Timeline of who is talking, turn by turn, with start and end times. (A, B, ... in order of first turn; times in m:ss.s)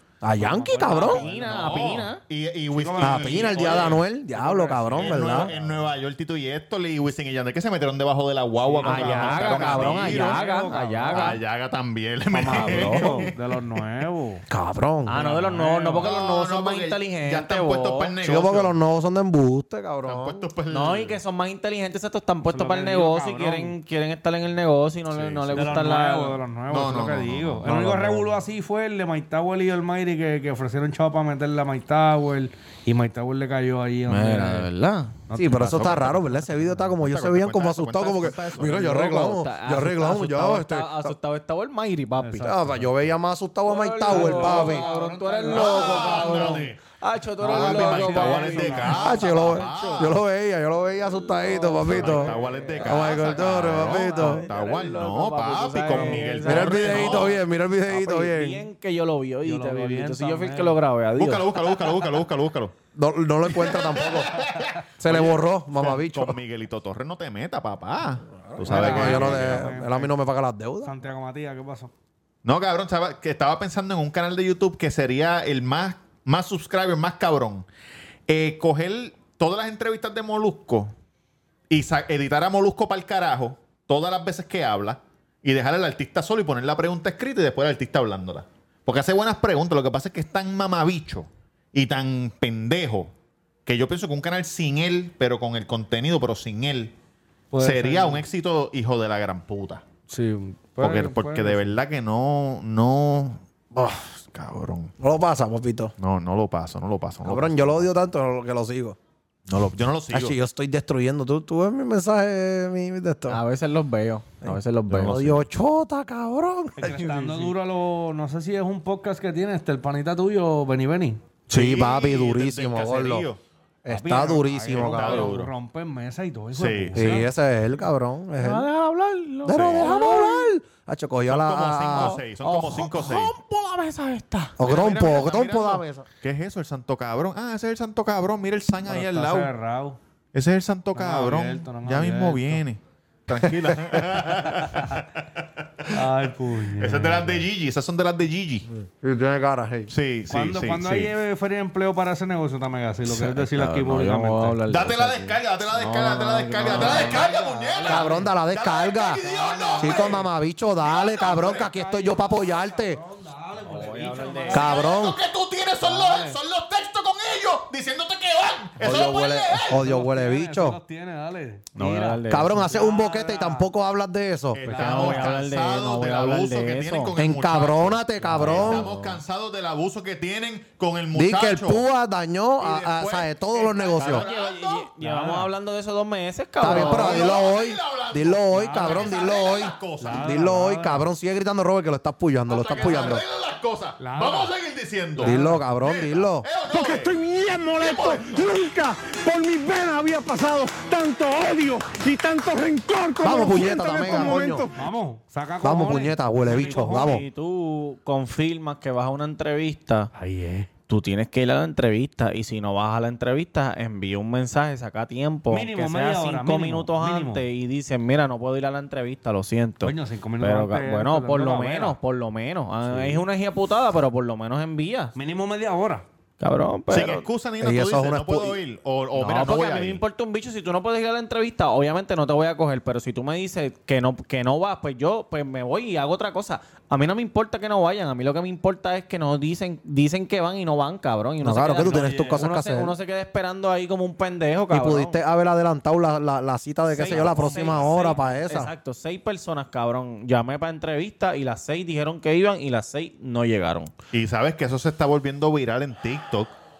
0:00.2-0:01.2 A
0:00.3-0:01.8 B
0:00.9-0:02.2 C
0:01.3-0:04.0 D
0:02.7-0:05.7 B
0:03.0-0:05.5 A
0:04.9-0:10.4 D
0:08.6-0:11.4 B
0:08.8-0:11.4 C
0:11.1-0:13.8 D
0:12.3-0:14.4 B
0:12.5-0:13.1 A
0:14.5-0:15.2 A
0:15.0-0:18.1 C
0:15.1-0:16.1 B
0:16.0-0:18.7 D
0:18.2-0:20.5 A
0:20.0-0:21.2 D
0:20.7-0:26.4 C
0:22.5-0:23.7 B
0:25.1-0:25.8 D
0:25.5-0:34.7 B
0:26.7-0:28.1 D
0:34.1-0:35.1 C
0:35.3-0:36.0 B
0:35.3-0:41.1 A
0:35.4-0:36.2 D
0:37.0-0:38.7 D
0:38.4-0:42.5 C
0:42.2-0:42.9 B
0:42.4-0:44.9 A
0:43.6-0:50.1 C
0:44.0-0:46.7 B
0:45.5-0:46.8 D
0:47.4-0:49.3 B
0:47.4-0:50.2 D
0:49.0-0:54.5 A
0:51.2-1:01.4 C
0:51.9-0:57.4 D
0:52.0-0:53.1 B
0:55.9-0:56.3 B
0:56.4-0:58.7 A
0:59.4-1:00.8 B
1:01.2-1:02.7 D
1:02.9-1:04.3 A
1:03.5-1:09.7 D
1:05.0-1:06.4 A
1:08.5-1:10.9 A
1:08.7-1:10.1 B
1:08.8-1:09.3 C
1:10.8-1:11.9 B
1:12.4-1:17.6 D
1:18.3-1:20.9 D
1:21.7-1:33.1 D
1:33.6-1:36.9 D
1:37.5-1:38.2 B
1:37.6-1:39.8 D
1:40.1-1:41.7 B
1:40.8-1:44.9 D
1:45.0-1:45.9 A
1:46.0-1:47.9 D
1:47.2-1:49.0 A
1:49.5-1:50.4 D
1:50.1-1:53.4 A
1:53.3-1:55.2 C
1:54.4-1:56.9 A
1:54.9-1:55.4 D
1:56.8-2:01.2 B
1:56.9-1:57.5 C
2:01.5-2:03.4 D
2:01.5-2:03.3 A
2:03.8-2:05.3 A
2:03.9-2:07.3 B
2:04.7-2:05.5 D
2:06.5-2:07.2 D
2:06.9-2:08.7 A
2:08.4-2:10.5 C
2:09.4-2:12.2 A
2:09.5-2:09.9 D
2:11.2-2:13.3 D
2:12.0-2:14.6 C
2:14.6-2:16.0 A
2:14.6-2:19.5 D
2:18.8-2:20.0 B
2:20.3-2:25.9 D
2:20.9-2:22.6 B
2:24.6-2:24.9 B
2:25.9-2:27.4 B
2:26.6-2:28.7 D
2:28.8-2:29.9 A
2:29.9-2:31.1 D
2:30.3-2:34.6 B
2:33.0-2:37.3 C
2:34.7-2:40.2 D
2:36.6-2:38.3 B
2:36.6-2:37.1 A
2:37.8-2:39.2 A
2:39.2-2:40.3 B
2:39.8-2:43.0 A
2:40.8-2:41.7 D
2:41.2-2:44.8 B
2:43.6-2:44.7 C
2:44.5-2:49.8 D
2:44.5-2:45.2 A
2:45.8-2:46.4 B
2:48.8-2:50.8 A
2:49.7-2:53.7 B
2:51.8-2:52.7 C
2:52.3-2:54.6 A
2:54.5-3:01.8 D
2:54.6-2:55.3 B
2:54.7-2:57.2 C
2:57.2-2:58.9 A
2:58.3-2:59.2 C
3:01.1-3:04.2 A
3:02.6-3:04.9 D
3:04.0-3:07.3 C
3:05.0-3:05.5 B
3:06.6-3:13.2 A
3:06.6-3:10.5 D
3:08.5-3:11.1 B
3:12.5-3:18.8 D
3:12.8-3:13.1 B
3:14.0-3:14.5 B
3:15.2-3:15.6 B
3:15.2-3:16.5 A
3:17.1-3:24.7 E
3:23.2-3:24.7 A
3:24.7-3:27.2 B
3:25.6-3:27.2 A
3:26.5-3:30.1 C
3:30.1-3:30.7 B
3:30.9-3:45.1 C
3:35.5-3:37.4 B
3:39.8-3:42.0 B
3:42.9-3:43.2 B
3:45.1-3:46.0 B
3:46.4-3:47.2 C
3:46.9-3:50.0 D
3:47.6-3:48.6 A
3:49.2-4:05.2 C
4:01.4-4:02.9 A
4:01.9-4:02.4 B
4:04.7-4:08.7 A
4:06.9-4:13.9 C
4:07.1-4:07.9 D
4:14.1-4:16.5 D